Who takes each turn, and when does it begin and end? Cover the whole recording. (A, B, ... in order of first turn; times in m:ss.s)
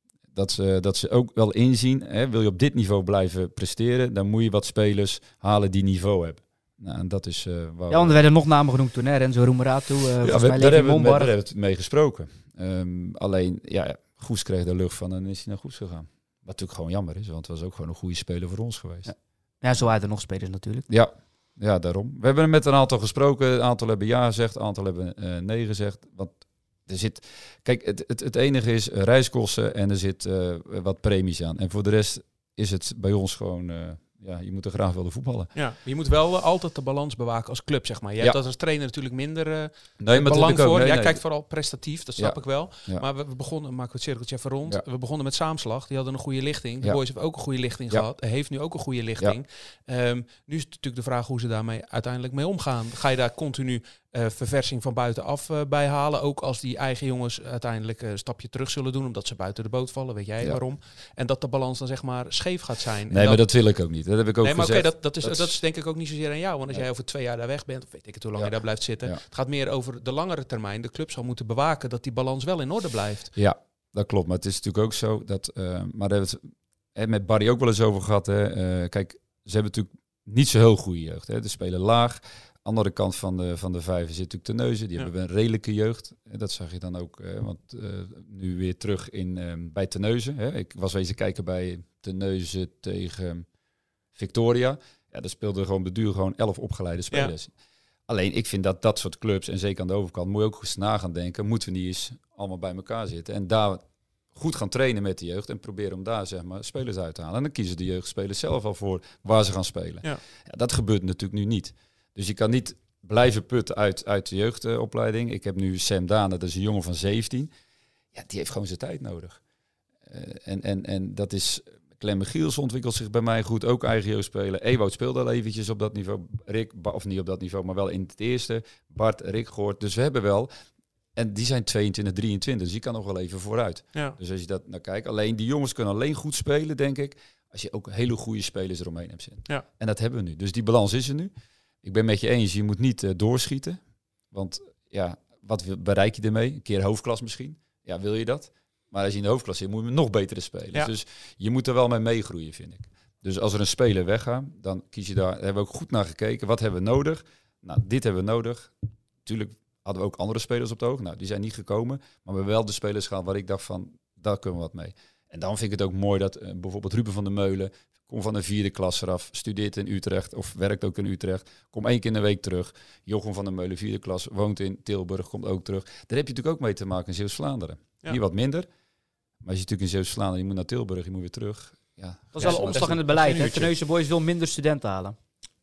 0:00.3-0:08.2 A
0:07.9-0:11.3 B
0:10.2-0:19.1 A
0:19.1-0:20.9 B
0:20.9-0:35.5 A
0:35.6-1:03.4 C
0:40.0-0:41.2 A
0:42.2-0:43.0 A
1:03.1-1:05.6 A
1:04.4-1:13.3 C
1:08.4-1:09.2 A
1:13.4-1:33.5 A
1:34.2-1:37.5 A
1:38.1-1:57.5 A
1:58.1-1:59.4 A
2:00.1-2:10.5 A
2:11.2-2:21.3 A
2:21.8-2:58.7 A
2:59.4-3:03.7 A
3:02.3-3:05.2 B
3:02.4-3:03.6 C